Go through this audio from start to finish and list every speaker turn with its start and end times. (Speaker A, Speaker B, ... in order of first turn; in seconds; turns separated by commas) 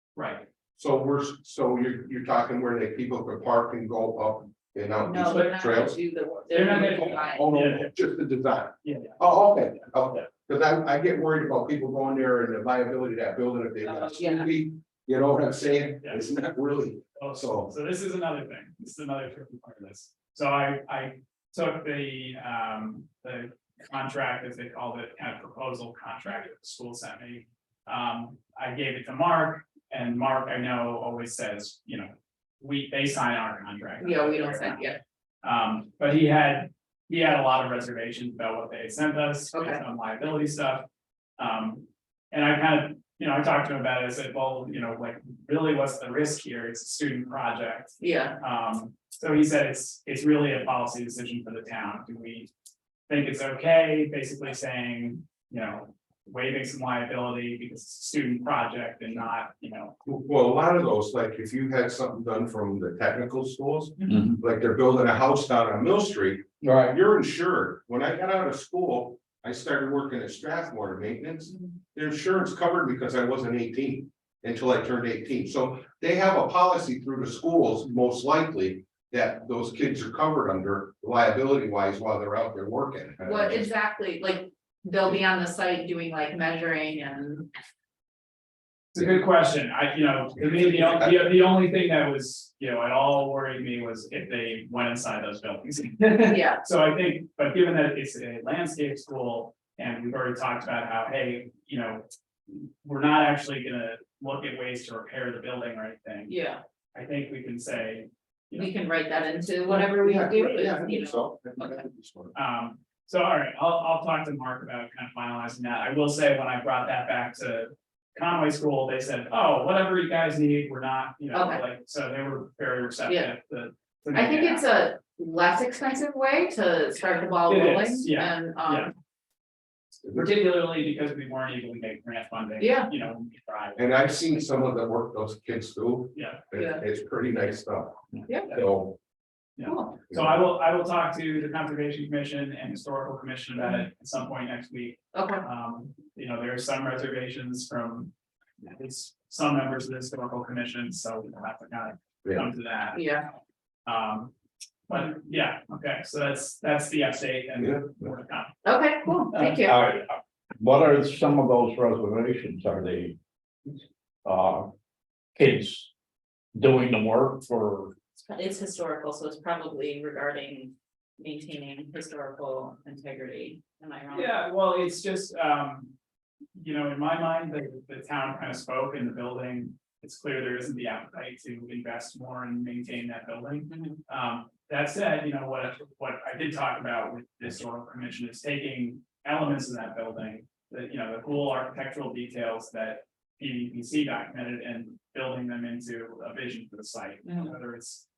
Speaker A: 0.1-0.5, Speaker B: 0.8-6.0, Speaker C: 5.0-7.5, Speaker A: 6.5-7.9, Speaker B: 6.6-17.7, Speaker A: 8.8-9.2, Speaker C: 13.8-14.5, Speaker A: 16.0-16.3, Speaker A: 17.2-40.8, Speaker C: 34.0-35.0, Speaker C: 39.5-39.8, Speaker A: 41.4-52.5, Speaker C: 48.0-48.4, Speaker A: 53.1-60.0, Speaker B: 60.0-83.7, Speaker D: 64.1-64.4, Speaker D: 66.6-67.0, Speaker C: 83.2-87.5, Speaker A: 88.9-106.3, Speaker B: 90.4-91.4, Speaker C: 96.3-96.6, Speaker C: 106.3-106.6, Speaker A: 107.0-108.7, Speaker C: 108.5-111.8, Speaker B: 109.7-112.3, Speaker A: 112.3-124.7, Speaker C: 121.3-121.6, Speaker C: 123.1-123.3, Speaker C: 124.1-128.9, Speaker A: 127.5-128.9, Speaker A: 130.1-134.4, Speaker C: 132.6-132.9, Speaker B: 133.8-139.0, Speaker A: 136.1-136.4, Speaker C: 136.6-136.8, Speaker A: 139.6-148.1, Speaker C: 139.6-139.9, Speaker B: 140.1-140.4, Speaker C: 145.1-145.4, Speaker A: 148.6-153.1, Speaker C: 152.9-153.2, Speaker A: 153.9-154.3, Speaker A: 154.9-158.6, Speaker B: 157.6-157.9, Speaker C: 158.6-159.8, Speaker A: 159.2-159.6, Speaker D: 159.7-163.2, Speaker D: 164.2-164.7, Speaker D: 165.4-165.9, Speaker D: 166.6-167.9, Speaker C: 168.2-174.4, Speaker A: 174.1-175.9, Speaker A: 176.6-198.1, Speaker C: 183.7-184.0, Speaker C: 197.2-197.5